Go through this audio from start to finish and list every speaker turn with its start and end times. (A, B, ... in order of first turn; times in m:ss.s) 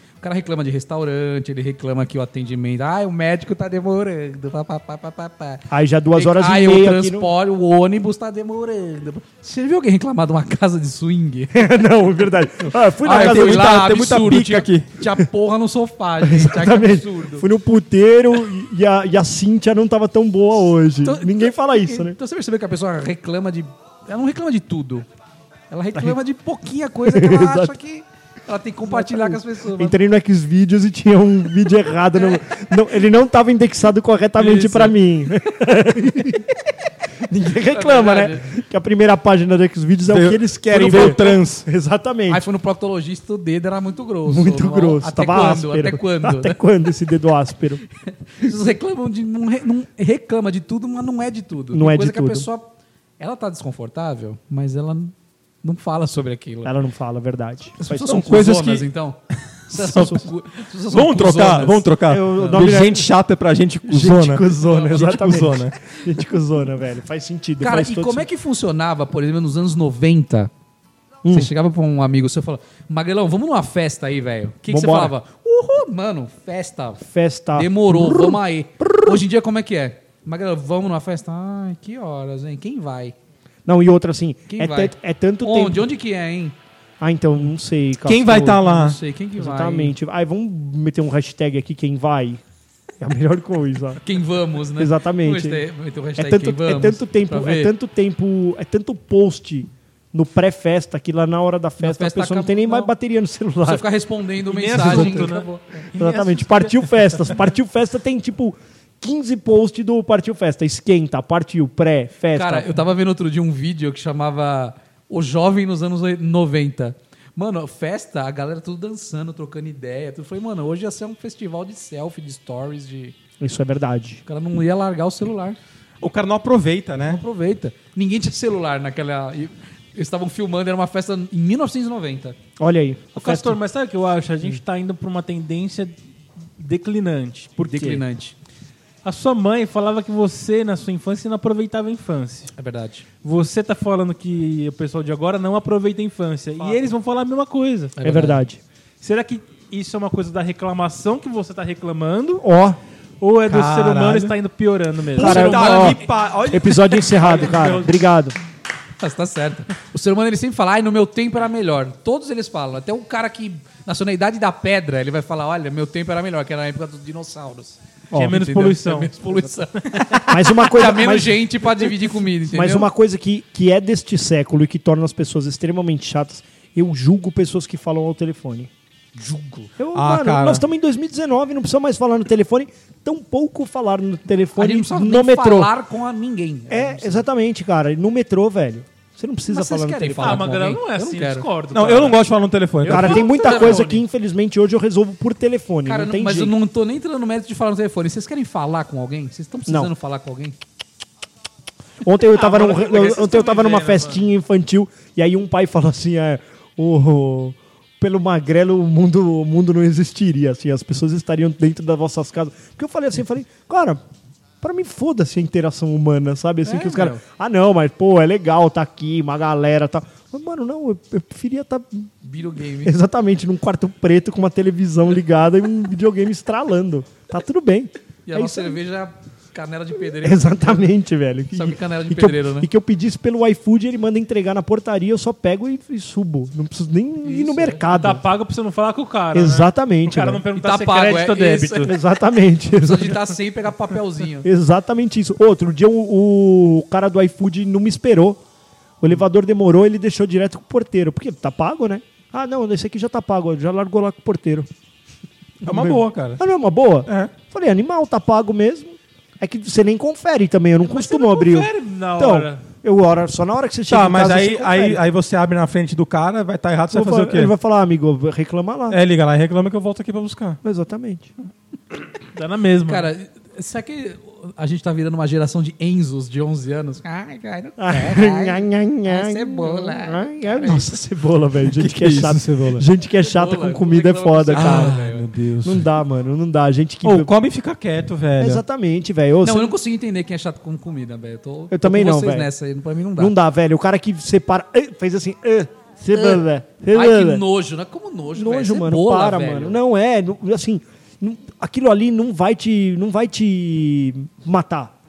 0:00.2-0:11.6 A
0:05.7-0:07.3 B
0:11.5-0:13.8 B
0:13.0-0:17.5 A
0:13.0-0:14.8 C
0:16.2-0:22.2 B
0:21.0-0:25.0 A
0:25.7-0:30.0 A
0:27.0-0:27.8 B
0:28.8-0:36.7 B
0:34.4-0:35.0 A
0:37.2-0:42.4 B
0:37.7-0:38.5 A
0:40.1-0:41.6 C
0:42.3-0:46.6 A
0:44.2-0:47.8 B
0:48.0-0:56.7 A
0:51.7-0:52.5 B
0:56.6-0:58.4 B
0:57.8-1:02.6 A
0:57.9-0:58.9 C
0:59.8-1:00.3 C
0:59.8-1:00.2 B
1:00.9-1:05.7 C
1:02.0-1:03.1 B
1:03.8-1:08.3 B
1:07.6-1:10.5 A
1:11.2-1:11.5 B
1:11.3-1:23.1 A
1:14.7-1:15.1 B
1:17.0-1:19.2 B
1:23.6-1:25.9 B
1:24.5-1:26.5 A
1:27.0-1:28.6 B
1:28.0-1:29.0 C
1:28.6-1:29.9 A
1:29.4-1:32.4 B
1:33.0-1:34.0 B
1:34.0-1:37.7 A
1:34.8-1:35.6 B
1:36.2-1:43.8 B
1:41.8-1:42.9 A
1:43.6-1:45.5 A
1:44.4-1:47.1 D
1:44.7-1:52.8 B
1:52.3-2:03.1 A
2:03.4-2:04.2 B
2:04.2-2:05.6 A
2:06.0-2:07.2 C
2:07.0-2:12.4 A
2:12.6-2:13.6 B
2:13.1-2:15.9 D
2:16.6-2:17.7 D
2:17.6-2:18.3 A
2:17.7-2:18.0 B
2:19.0-2:22.5 D
2:22.6-2:23.0 A
2:23.2-2:28.0 D
2:28.0-2:28.4 A
2:28.0-2:28.6 B
2:29.0-2:32.4 D
2:32.4-2:32.8 B
2:33.2-2:36.0 D
2:33.4-2:34.4 C
2:35.2-2:37.9 C
2:35.2-2:38.4 B
2:39.0-2:52.9 A
2:48.1-2:49.2 D
2:48.1-2:48.4 B
2:49.7-2:50.2 D
2:50.3-2:58.7 B
2:59.2-2:59.7 A
2:59.8-3:05.7 B
2:59.9-3:00.6 C
3:04.6-3:07.2 A
3:06.7-3:10.6 B
3:09.5-3:11.5 A
3:10.2-3:12.2 D
3:11.7-3:13.2 C
3:12.8-3:14.0 D
3:12.8-3:16.5 B
3:12.9-3:13.9 A
3:15.8-3:20.6 A
3:19.7-3:19.9 B
3:22.0-3:34.0 B
3:22.3-3:24.2 D
3:34.6-3:42.1 B
3:36.6-3:37.2 A
3:42.2-3:42.9 A
3:42.8-3:48.8 B
3:48.2-3:50.9 A
3:50.2-3:58.2 B
3:51.5-3:52.7 A
3:57.2-3:58.0 A
3:57.9-4:01.9 D
3:59.3-4:00.4 B
4:00.6-4:01.9 A
4:01.7-4:03.3 B
4:02.7-4:04.5 A
4:04.4-4:08.4 B
4:09.0-4:14.7 B
4:15.6-4:16.4 C
4:15.6-4:25.0 B
4:17.0-4:17.3 C
4:20.8-4:22.6 D
4:23.9-4:27.5 C
4:26.9-4:29.0 B
4:28.9-4:30.6 C
4:30.6-4:31.3 B
4:32.3-4:33.1 D
4:32.9-4:40.9 A
4:37.8-4:45.0 B
4:41.7-4:42.8 C
4:43.2-4:45.3 A
4:44.5-4:45.9 C
4:45.6-4:47.3 B
4:47.0-4:48.6 C
4:48.4-4:49.7 B
4:49.4-4:53.3 A
4:51.7-4:52.5 B
4:53.2-4:57.4 B
4:56.1-4:59.8 A
4:58.3-5:04.9 B